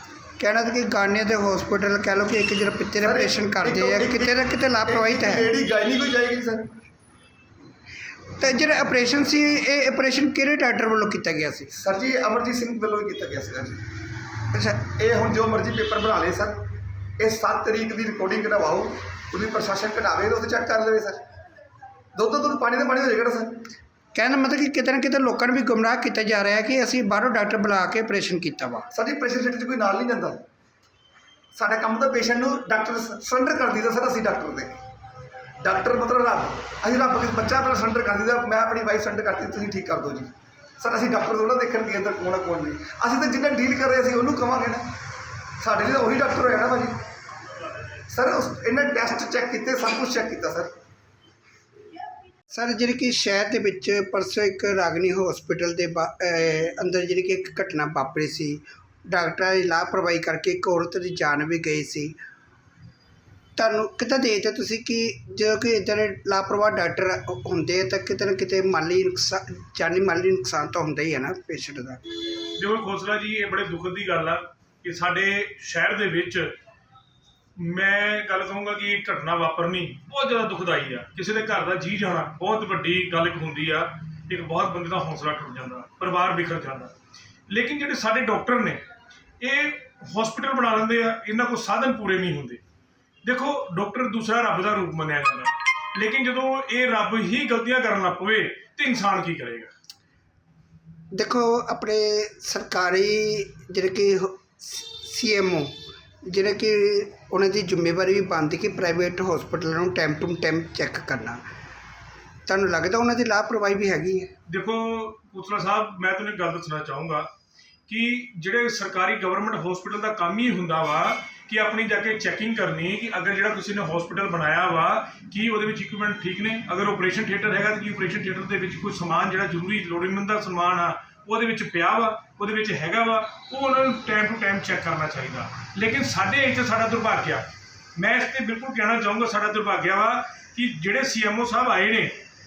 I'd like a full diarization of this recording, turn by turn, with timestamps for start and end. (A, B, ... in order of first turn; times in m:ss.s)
0:00.4-0:05.5 A
0:03.0-0:06.7 B
0:08.4-0:11.7 A
0:11.7-0:13.8 B
0:14.5-0:14.9 A
0:14.9-0:16.6 B
0:17.2-0:21.2 B
0:22.2-0:23.7 B
0:24.2-0:28.9 A
0:28.9-0:30.4 B
0:31.5-0:34.8 B
0:35.6-0:44.8 B
0:45.6-0:47.0 B
0:48.1-0:50.7 B
0:52.5-1:02.2 A
1:03.6-1:12.0 A
1:12.6-1:16.5 C
1:17.6-1:26.9 C
1:27.5-1:28.8 C
1:29.4-1:32.6 C
1:33.2-1:39.7 C
1:41.1-1:45.7 A
1:46.3-1:51.4 A
1:52.5-1:54.3 A
1:54.5-1:57.3 C
1:57.9-2:22.2 C